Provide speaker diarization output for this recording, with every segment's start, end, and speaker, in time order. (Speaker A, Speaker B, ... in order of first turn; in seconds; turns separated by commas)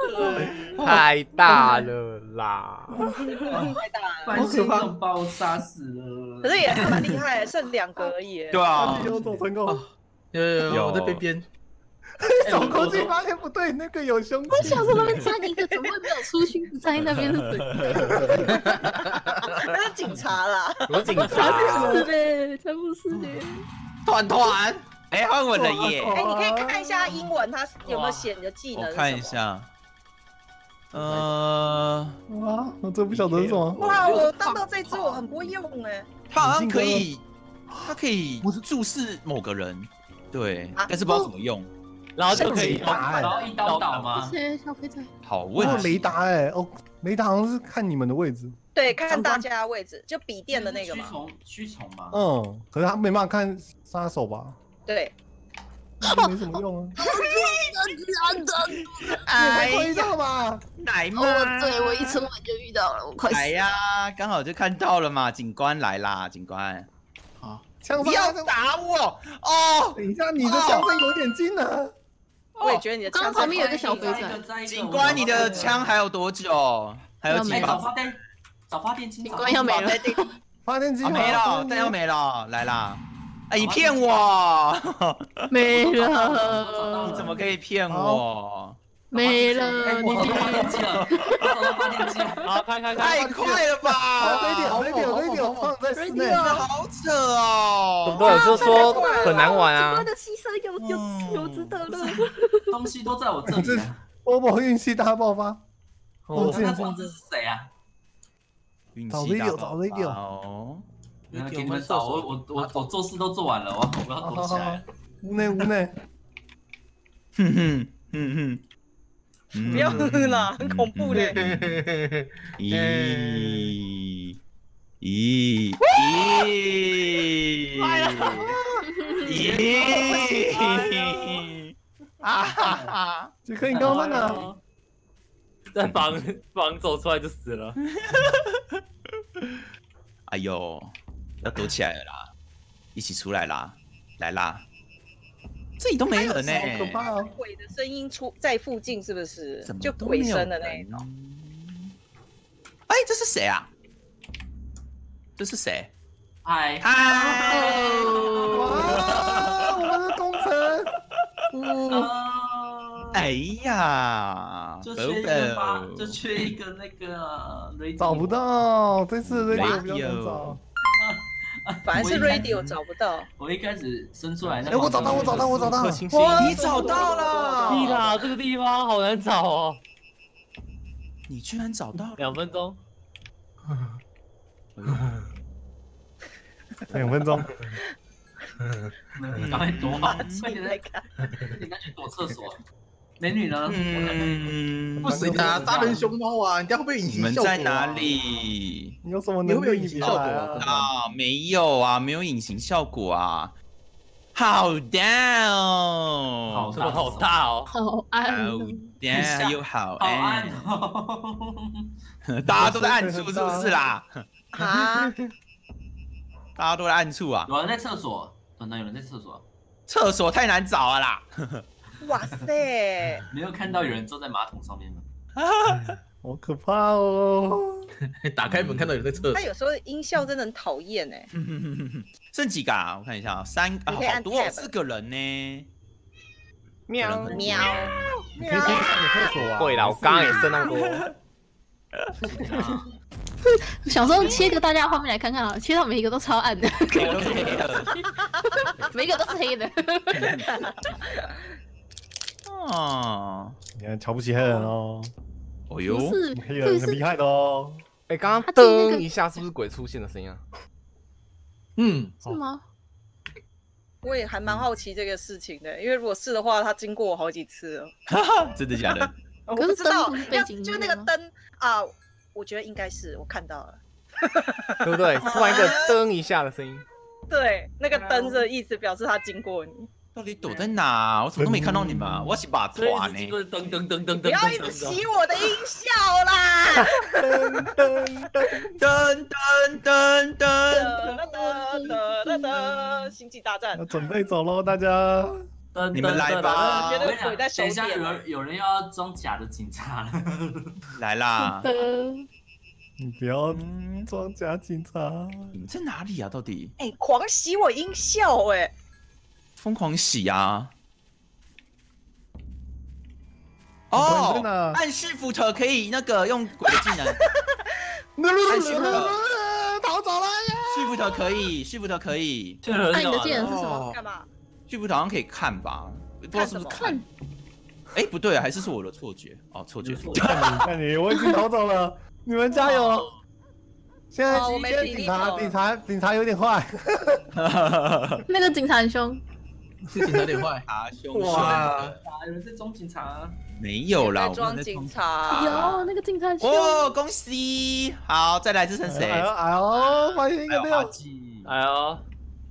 Speaker A: 0.4-1.0, Speaker B: 0.8-3.0, Speaker C: 1.5-1.7, Speaker D: 3.5-7.2, Speaker E: 3.5-4.5, Speaker A: 4.3-5.0, Speaker E: 6.4-8.7, Speaker F: 8.5-9.2, Speaker G: 8.8-9.8, Speaker A: 9.7-11.4, Speaker F: 10.7-11.2, Speaker G: 12.2-15.1, Speaker D: 12.4-13.2, Speaker C: 14.5-18.5, Speaker F: 14.5-15.3, Speaker F: 17.0-18.5, Speaker G: 18.2-18.5, Speaker A: 18.5-19.0, Speaker E: 19.4-21.7, Speaker B: 20.9-22.1, Speaker C: 21.1-23.6, Speaker G: 21.7-22.0, Speaker F: 24.1-26.2, Speaker G: 25.5-27.0, Speaker E: 26.1-29.4, Speaker H: 27.9-28.3, Speaker F: 28.7-29.7, Speaker F: 30.9-32.2, Speaker G: 32.3-33.8, Speaker A: 33.7-35.2, Speaker E: 33.8-36.1, Speaker F: 36.3-37.2, Speaker G: 36.4-37.1, Speaker A: 37.7-38.6, Speaker F: 37.8-41.7, Speaker E: 40.8-41.3, Speaker H: 42.2-44.2, Speaker G: 42.3-43.4, Speaker E: 42.3-43.0, Speaker D: 42.9-44.3, Speaker C: 44.1-45.1, Speaker F: 45.2-46.1, Speaker G: 45.5-48.5, Speaker E: 48.7-51.1, Speaker A: 49.0-49.4, Speaker D: 50.5-52.2, Speaker G: 52.1-54.5, Speaker E: 54.9-55.1, Speaker G: 56.0-57.0, Speaker C: 56.0-56.4, Speaker C: 57.0-59.2, Speaker F: 57.1-57.6, Speaker F: 58.8-60.1, Speaker G: 59.3-60.6, Speaker F: 60.8-62.2, Speaker C: 61.1-63.6, Speaker F: 63.3-66.9, Speaker A: 67.4-67.6, Speaker G: 67.8-68.5, Speaker F: 68.0-70.9, Speaker G: 69.9-71.9, Speaker E: 72.6-74.3, Speaker C: 73.1-74.5, Speaker D: 73.3-76.0, Speaker F: 74.6-77.9, Speaker C: 77.2-77.9, Speaker D: 77.4-80.0, Speaker C: 79.2-80.3, Speaker F: 79.7-80.2, Speaker G: 80.6-82.0, Speaker F: 81.0-86.0, Speaker D: 83.5-84.1, Speaker C: 85.5-87.3, Speaker D: 85.9-87.5, Speaker F: 87.0-89.2, Speaker G: 87.9-88.2, Speaker C: 89.1-92.5, Speaker D: 89.8-92.5, Speaker G: 90.0-90.7, Speaker F: 90.1-91.2, Speaker H: 92.4-93.4, Speaker F: 92.9-94.8, Speaker G: 93.1-96.4, Speaker A: 94.5-95.7, Speaker C: 95.9-96.7, Speaker F: 96.3-98.6, Speaker B: 98.0-100.1, Speaker C: 98.2-102.8, Speaker E: 98.5-99.5, Speaker F: 100.8-101.8, Speaker D: 101.8-104.0, Speaker G: 103.5-105.6, Speaker G: 106.3-106.9, Speaker D: 106.3-107.7, Speaker F: 108.9-110.8, Speaker G: 109.1-110.2, Speaker A: 111.3-112.9, Speaker D: 111.3-114.8, Speaker G: 114.2-115.9, Speaker F: 117.4-118.6, Speaker F: 119.5-121.8, Speaker A: 119.7-120.0, Speaker E: 119.7-121.4, Speaker A: 121.1-123.7, Speaker F: 122.6-124.4, Speaker F: 125.0-128.6, Speaker H: 127.8-128.5, Speaker C: 128.8-129.5, Speaker F: 129.2-133.3, Speaker D: 129.2-130.4, Speaker D: 132.4-133.0, Speaker G: 133.4-134.5, Speaker H: 133.7-134.6, Speaker D: 133.8-134.4, Speaker H: 135.7-137.8, Speaker F: 137.9-138.8, Speaker F: 140.3-142.3, Speaker F: 142.9-144.6, Speaker F: 145.8-147.1, Speaker E: 146.2-151.0, Speaker G: 146.2-147.3, Speaker F: 149.6-151.9, Speaker F: 152.9-153.7, Speaker F: 155.4-155.9, Speaker D: 156.4-159.0, Speaker F: 156.8-158.3, Speaker C: 157.5-158.7, Speaker G: 158.5-160.9, Speaker F: 158.8-159.8, Speaker A: 161.5-162.1, Speaker D: 161.9-163.3, Speaker F: 163.1-166.2, Speaker D: 164.8-168.4, Speaker G: 168.0-170.6, Speaker F: 169.2-170.6, Speaker E: 169.5-169.8, Speaker D: 171.0-172.7, Speaker E: 171.9-173.3, Speaker F: 171.9-172.5, Speaker D: 173.4-177.2, Speaker F: 174.4-175.2, Speaker G: 174.7-176.1, Speaker B: 174.9-176.7, Speaker F: 176.1-178.2, Speaker E: 176.3-178.1, Speaker H: 177.7-179.8, Speaker F: 181.3-182.5, Speaker H: 182.2-182.8, Speaker F: 184.8-185.1, Speaker G: 186.9-187.6, Speaker D: 189.1-192.6, Speaker F: 189.9-190.4, Speaker E: 190.1-191.1, Speaker D: 193.2-194.5, Speaker F: 193.6-195.6, Speaker G: 195.0-195.9, Speaker A: 195.0-198.2, Speaker D: 195.4-196.1, Speaker F: 197.0-199.0, Speaker G: 199.0-200.9, Speaker A: 199.4-200.8, Speaker F: 200.0-203.5, Speaker F: 204.3-207.2, Speaker D: 206.5-207.4, Speaker H: 206.8-207.7, Speaker C: 207.7-209.0, Speaker F: 208.2-210.7, Speaker D: 209.1-211.9, Speaker F: 212.3-214.3, Speaker G: 212.5-213.9, Speaker E: 214.5-215.1, Speaker F: 216.6-217.5, Speaker D: 217.5-219.4, Speaker F: 219.9-221.6, Speaker E: 222.0-223.2, Speaker D: 223.3-225.0, Speaker F: 225.3-226.0, Speaker G: 226.2-227.8, Speaker A: 228.2-229.5, Speaker F: 228.5-229.1, Speaker E: 229.3-231.3, Speaker F: 231.3-235.7, Speaker E: 233.9-234.7, Speaker B: 236.9-237.6, Speaker F: 237.0-238.1, Speaker D: 237.3-238.0, Speaker E: 237.3-239.0, Speaker G: 238.4-240.7, Speaker B: 239.5-241.1, Speaker F: 242.0-242.9, Speaker C: 243.4-247.7, Speaker F: 244.2-244.5, Speaker F: 246.9-247.9, Speaker H: 247.0-247.9, Speaker C: 248.4-250.4, Speaker F: 250.1-250.5, Speaker E: 250.3-251.2, Speaker F: 252.4-253.6, Speaker G: 253.7-255.1, Speaker F: 255.7-256.2, Speaker C: 255.8-257.0, Speaker G: 256.3-257.8, Speaker B: 258.1-260.4, Speaker C: 258.5-259.4, Speaker A: 261.8-262.4, Speaker C: 262.2-262.6, Speaker E: 264.0-267.9, Speaker F: 268.1-269.1, Speaker E: 269.5-275.9, Speaker C: 269.6-271.1, Speaker B: 274.8-276.8, Speaker F: 275.2-275.9, Speaker E: 277.3-279.9, Speaker D: 277.9-278.4, Speaker F: 280.1-283.4, Speaker D: 280.4-280.7, Speaker G: 281.4-282.4, Speaker H: 282.7-285.0, Speaker E: 284.2-287.4, Speaker G: 287.2-288.6, Speaker F: 288.8-291.1, Speaker E: 290.7-293.8, Speaker C: 291.3-292.6, Speaker G: 293.7-295.4, Speaker H: 295.7-296.9, Speaker F: 295.9-297.1, Speaker E: 296.4-298.2, Speaker D: 297.0-300.7, Speaker F: 301.0-301.7, Speaker C: 301.4-302.2, Speaker G: 303.0-305.5, Speaker F: 303.5-304.1, Speaker F: 305.5-306.7, Speaker E: 306.8-308.7, Speaker F: 309.6-310.7, Speaker F: 313.9-317.2, Speaker G: 313.9-314.8, Speaker G: 318.2-321.5, Speaker F: 318.5-319.2, Speaker C: 318.6-319.1, Speaker F: 320.7-322.6, Speaker H: 322.6-323.4, Speaker C: 322.9-323.6, Speaker A: 323.3-324.0, Speaker E: 323.4-324.3, Speaker F: 324.7-327.0, Speaker E: 326.3-327.0, Speaker C: 326.7-327.0, Speaker F: 327.9-330.6, Speaker D: 329.8-330.6, Speaker G: 330.3-333.1, Speaker C: 331.1-331.4, Speaker H: 332.6-333.0, Speaker G: 334.1-337.2, Speaker E: 334.3-335.6, Speaker F: 337.3-338.2, Speaker C: 338.3-339.2, Speaker A: 339.9-342.0, Speaker F: 340.6-342.0, Speaker G: 341.1-341.6, Speaker D: 341.3-343.4, Speaker F: 343.5-345.8, Speaker E: 343.9-345.8, Speaker C: 345.3-346.9, Speaker F: 346.4-349.3, Speaker G: 348.8-350.9, Speaker F: 350.5-351.5, Speaker H: 351.4-352.0